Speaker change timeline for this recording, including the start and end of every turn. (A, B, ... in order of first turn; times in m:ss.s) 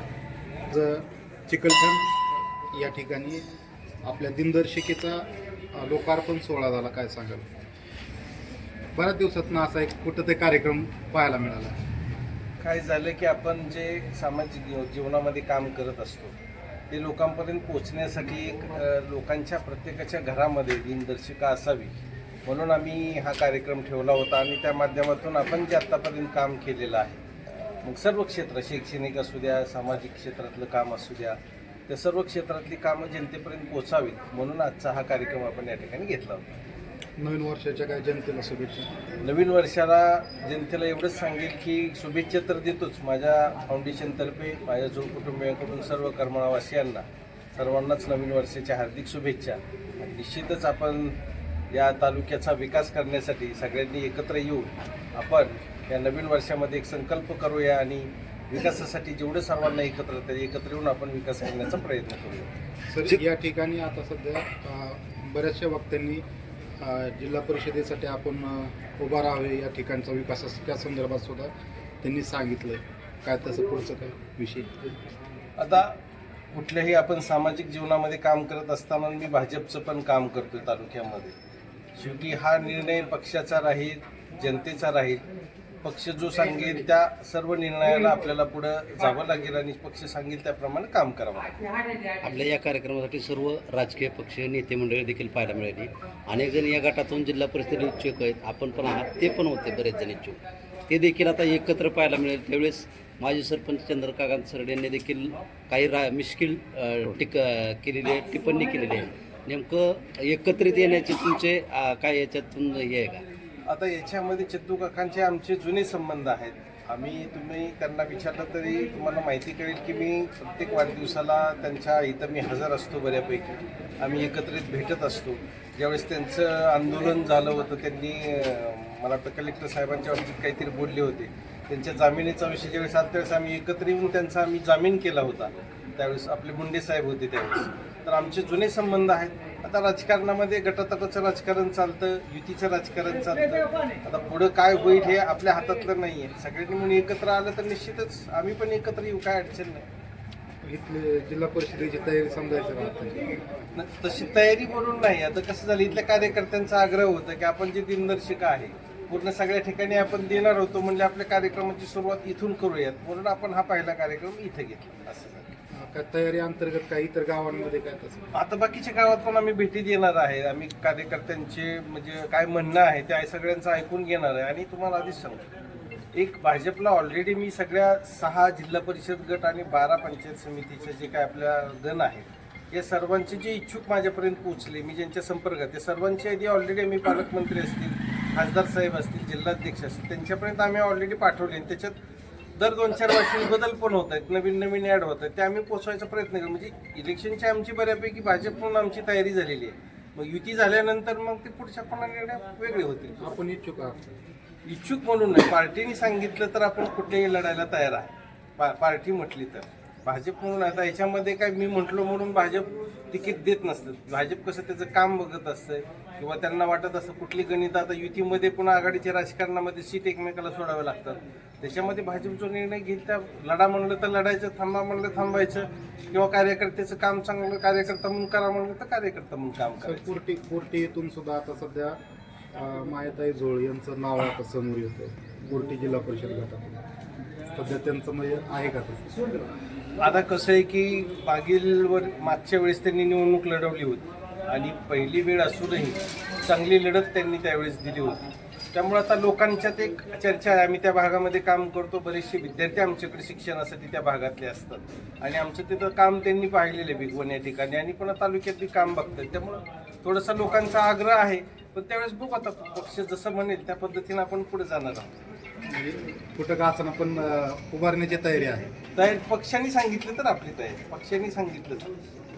0:00.7-0:02.1 A
0:02.7-0:03.4 A
0:04.0-0:07.4 A
0:09.0-0:11.8 A
0:12.6-0:16.4 B
0:16.9-0:27.2 B
0:27.8-0:31.4 B
0:31.9-0:36.5 B
0:37.2-0:38.9 A
0:39.2-0:51.2 B
0:51.7-1:02.5 B
1:02.9-1:06.2 A
1:06.8-1:11.5 A
1:12.0-1:15.0 A
1:15.6-1:16.0 B
1:16.5-1:21.3 B
1:22.0-1:25.3 B
1:25.8-1:31.6 B
1:32.2-1:40.4 C
1:40.9-1:53.2 C
1:53.7-2:29.8 B
2:30.6-2:33.7 A
2:33.7-2:45.6 B
2:45.8-2:48.3 A
2:48.3-2:55.5 B
2:56.1-3:12.0 B
3:12.6-3:23.4 B
3:23.2-3:24.2 A
3:24.6-3:50.1 B
3:49.8-3:52.0 A
3:52.6-3:56.8 A
3:57.5-3:59.1 A
4:00.0-4:25.2 B
4:25.6-4:28.7 A
4:29.0-4:31.9 B